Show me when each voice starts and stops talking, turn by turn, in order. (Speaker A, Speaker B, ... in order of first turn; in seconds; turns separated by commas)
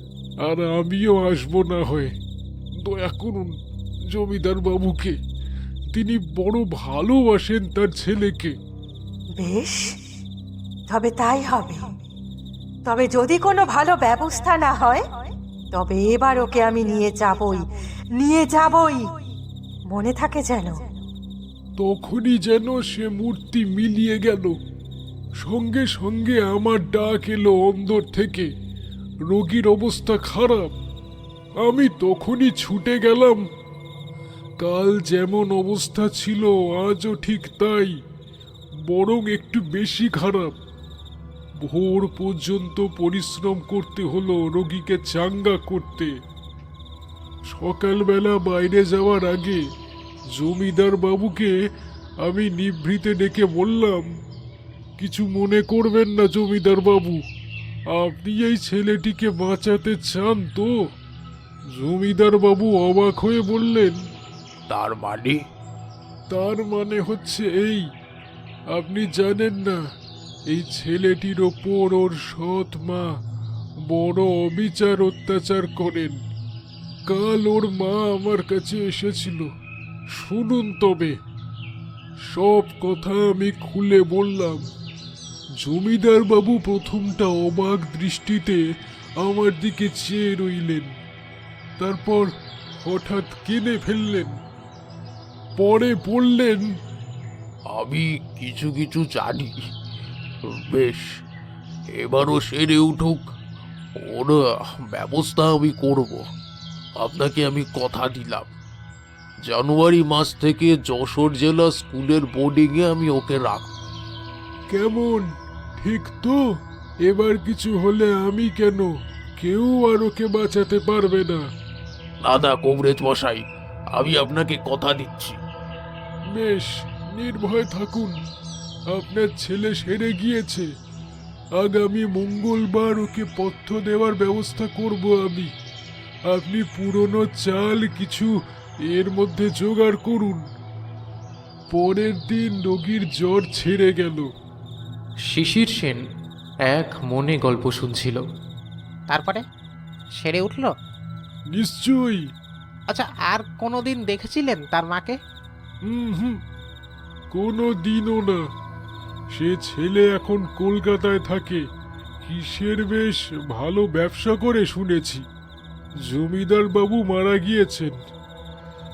Speaker A: 0.4-2.1, Speaker A: 2.8-3.6, Speaker A: 4.1-5.2, Speaker A: 5.9-8.6, Speaker B: 9.4-9.9, Speaker B: 10.9-11.9, Speaker B: 12.8-15.1, Speaker B: 15.7-17.6, Speaker B: 18.2-19.1, Speaker B: 19.9-20.8, Speaker A: 21.8-24.6, Speaker A: 25.4-28.5, Speaker A: 29.3-30.7, Speaker A: 31.6-33.4, Speaker A: 34.6-38.0, Speaker A: 38.8-40.5, Speaker A: 41.6-46.1, Speaker A: 47.5-49.6, Speaker A: 50.3-51.5, Speaker A: 52.2-54.1, Speaker A: 55.0-57.2, Speaker A: 57.9-60.8, Speaker A: 61.7-64.0, Speaker C: 64.7-65.4, Speaker A: 66.3-67.8, Speaker A: 68.7-69.8, Speaker A: 70.5-73.1, Speaker A: 73.9-76.2, Speaker A: 77.1-79.5, Speaker A: 80.1-81.2, Speaker A: 82.3-84.7, Speaker A: 85.6-88.6, Speaker A: 89.2-90.9, Speaker A: 91.8-92.3, Speaker A: 92.8-94.4, Speaker A: 95.6-96.8, Speaker C: 97.7-99.7, Speaker C: 100.5-101.2, Speaker C: 102.0-103.3, Speaker C: 104.0-106.3, Speaker C: 107.0-108.5, Speaker C: 109.5-113.7, Speaker A: 114.7-116.4, Speaker A: 117.0-121.4, Speaker C: 122.3-125.4, Speaker A: 126.3-128.2, Speaker A: 128.9-130.7, Speaker A: 131.6-135.5, Speaker A: 136.3-138.3, Speaker A: 138.9-140.4, Speaker A: 141.7-144.3, Speaker D: 145.3-146.0, Speaker D: 146.7-148.2, Speaker E: 149.1-149.4, Speaker E: 150.2-150.7, Speaker A: 151.5-152.2, Speaker E: 152.9-155.2, Speaker A: 155.8-156.4, Speaker A: 157.3-158.4, Speaker A: 159.3-161.7, Speaker A: 162.2-165.2, Speaker A: 166.0-168.0